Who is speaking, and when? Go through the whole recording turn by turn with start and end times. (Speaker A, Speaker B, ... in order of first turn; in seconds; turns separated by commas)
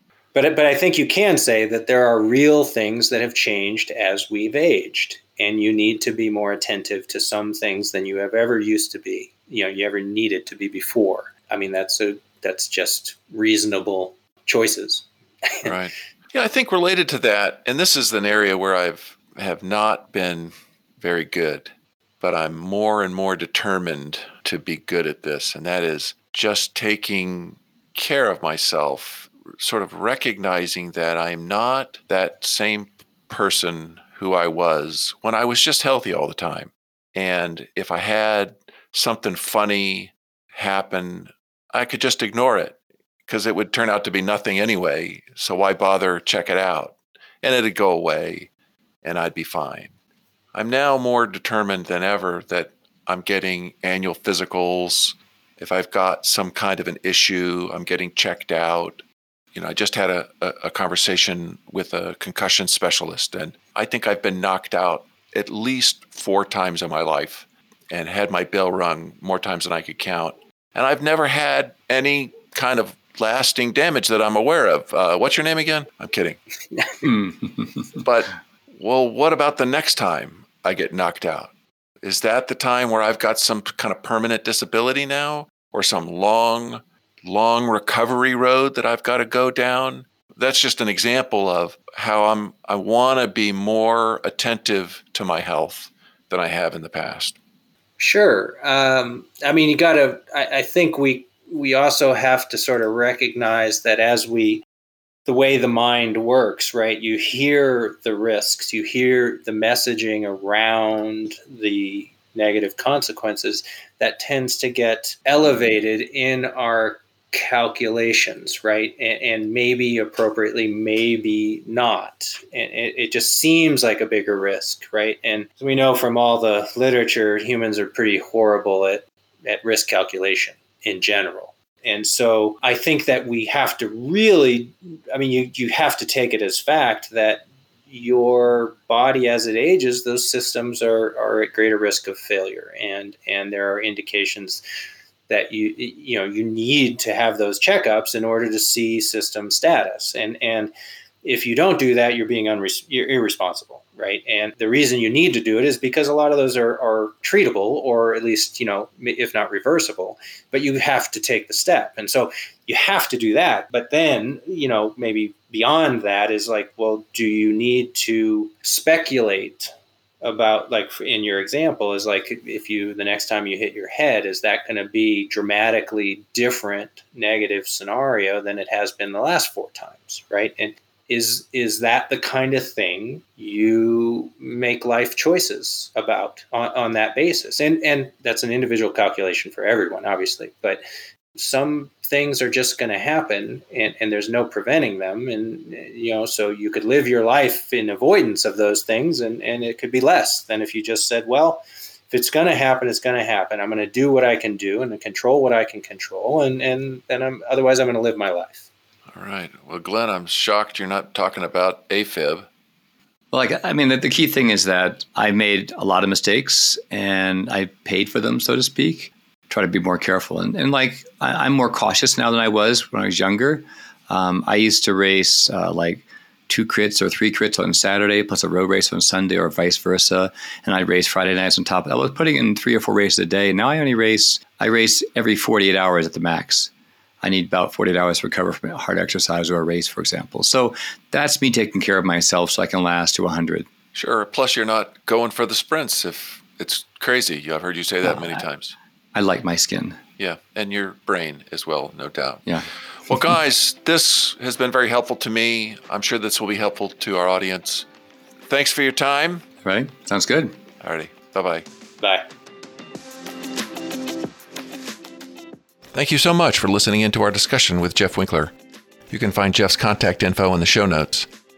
Speaker A: 0.3-15.7, Speaker B: 15.6-21.7, Speaker B: 22.2-48.5, Speaker B: 49.0-49.9, Speaker B: 50.5-59.0, Speaker B: 59.5-76.4, Speaker C: 77.0-78.0, Speaker B: 78.0-97.4, Speaker A: 98.0-104.6, Speaker A: 105.2-144.6, Speaker A: 145.3-150.7, Speaker A: 151.2-169.7, Speaker A: 170.2-190.8, Speaker A: 191.3-208.7, Speaker B: 209.1-212.5, Speaker C: 213.3-236.7, Speaker C: 237.2-243.7, Speaker B: 243.9-248.8, Speaker C: 248.0-248.4, Speaker C: 249.1-250.0, Speaker B: 250.2-252.4, Speaker C: 252.4-253.2, Speaker B: 253.1-257.9, Speaker B: 258.5-259.4, Speaker C: 259.6-260.6, Speaker B: 260.8-261.6, Speaker A: 262.0-262.3, Speaker B: 265.9-268.5, Speaker B: 269.1-271.3